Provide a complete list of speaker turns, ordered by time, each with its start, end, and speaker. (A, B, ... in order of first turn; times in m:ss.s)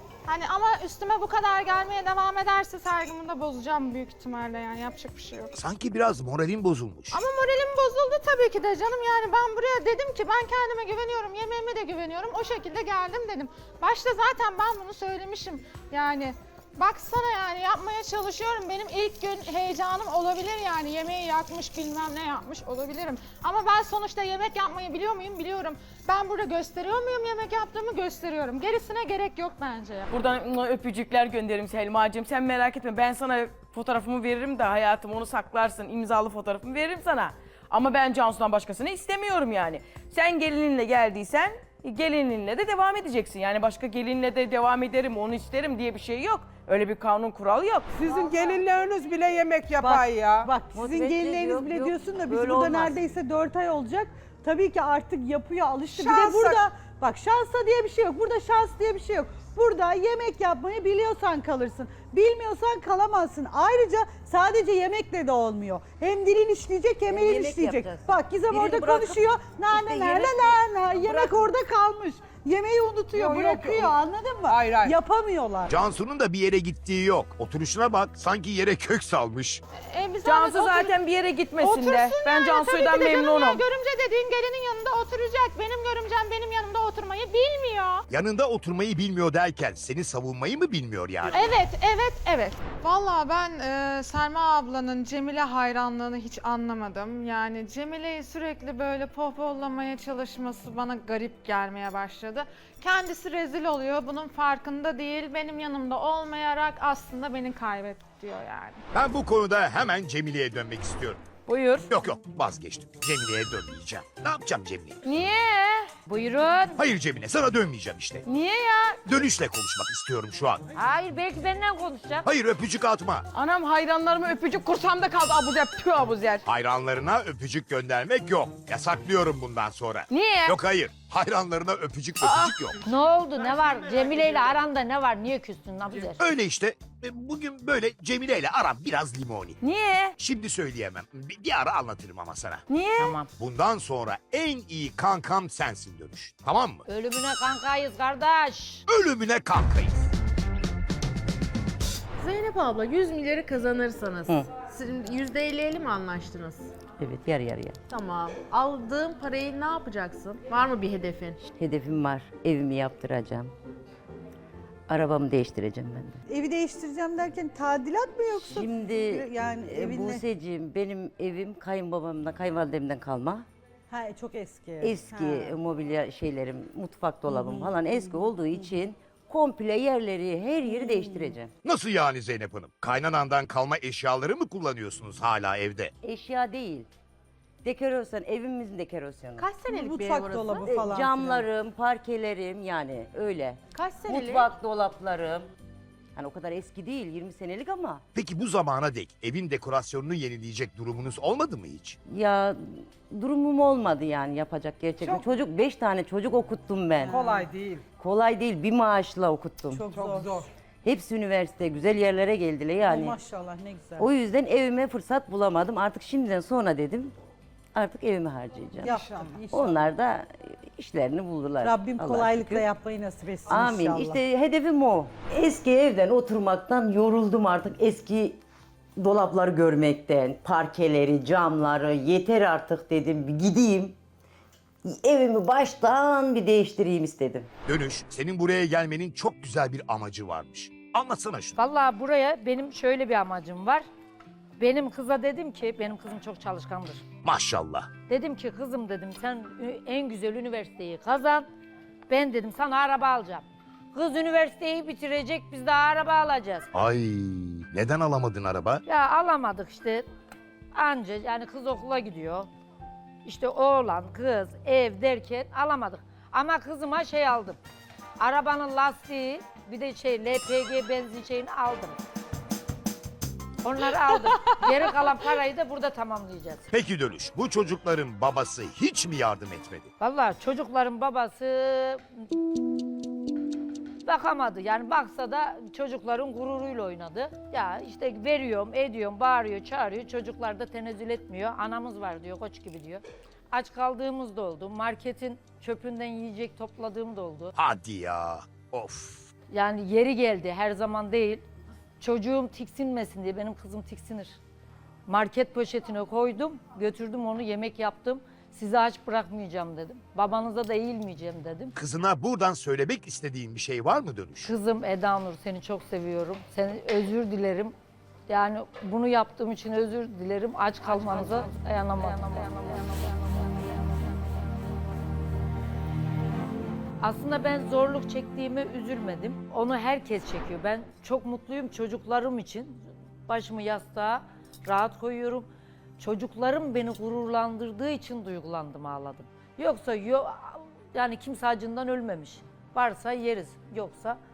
0:00.3-0:05.5 A
0:05.5-0:07.2 B
0:07.1-0:30.1 A
0:30.1-0:48.2 C
0:47.9-0:50.5 D
0:49.8-1:15.7 E
0:50.7-0:53.0 F
0:55.9-0:56.7 D
1:07.1-1:11.5 F
1:13.1-1:15.0 D
1:15.7-1:19.6 B
1:19.9-1:20.9 A
1:20.2-1:23.6 C
1:21.6-1:28.0 A
1:28.1-1:31.6 B
1:31.3-1:48.8 A
1:48.9-1:51.2 B
1:51.5-1:51.9 C
1:51.9-1:55.0 B
1:55.0-1:55.9 C
1:56.1-1:56.8 G
1:56.8-1:58.2 B
1:58.3-1:59.0 C
1:59.1-2:00.6 B
2:00.8-2:02.3 G
2:02.2-2:03.2 B
2:03.3-2:06.4 C
2:06.5-2:12.8 B
2:10.1-2:10.6 C
2:12.8-2:16.2 G
2:16.2-2:19.6 B
2:19.6-2:20.2 C
2:20.2-2:22.6 B
2:22.7-2:23.2 C
2:23.0-2:23.3 G
2:23.4-2:26.8 B
2:26.9-2:28.8 G
2:28.9-2:30.1 B
2:32.2-2:36.7 H
2:37.0-2:37.8 F
2:37.9-2:41.4 H
2:41.4-2:43.5 F
2:44.9-2:46.2 F
2:46.3-2:50.2 E
2:48.3-2:53.5 F
2:53.9-2:55.6 E
2:54.8-3:01.5 F
2:57.3-2:58.3 E
3:00.7-3:01.3 E
3:01.6-3:05.9 B
3:06.0-3:06.9 F
3:07.6-3:09.5 F
3:09.4-3:10.7 H
3:09.7-3:11.4 E
3:10.7-3:15.5 F
3:13.7-3:14.5 H
3:16.2-3:18.0 F
3:18.1-3:22.0 B
3:22.1-3:27.2 F
3:27.0-3:27.4 E
3:27.1-3:27.8 D
3:28.0-3:29.8 F
3:29.7-3:30.4 E
3:29.9-3:30.5 D
3:30.8-3:33.2 F
3:32.8-3:34.1 E
3:34.0-3:37.1 F
3:37.7-3:42.7 F
3:38.8-3:39.9 E
3:38.9-3:39.5 D
3:41.6-3:44.2 E
3:43.5-3:48.4 F
3:49.0-3:54.0 F
3:54.9-3:57.5 F
3:57.7-4:01.6 B
4:01.6-4:03.8 G
4:04.6-4:07.0 G
4:07.2-4:07.9 B
4:08.1-4:11.5 G
4:12.1-4:16.7 G
4:16.7-4:18.8 B
4:18.9-4:20.1 G
4:20.7-4:22.5 G
4:23.2-4:27.6 G
4:28.2-4:32.0 G
4:33.6-4:36.7 G
4:36.7-4:39.9 B
4:40.0-4:42.0 G
4:44.0-4:57.6 G
4:57.6-4:59.3 B
4:59.5-5:01.4 G
5:02.0-5:04.4 G
5:05.1-5:11.8 G
5:11.8-5:14.5 B
5:14.4-5:17.8 G
5:18.3-5:23.2 G
5:27.0-5:35.5 G
5:36.0-5:44.2 G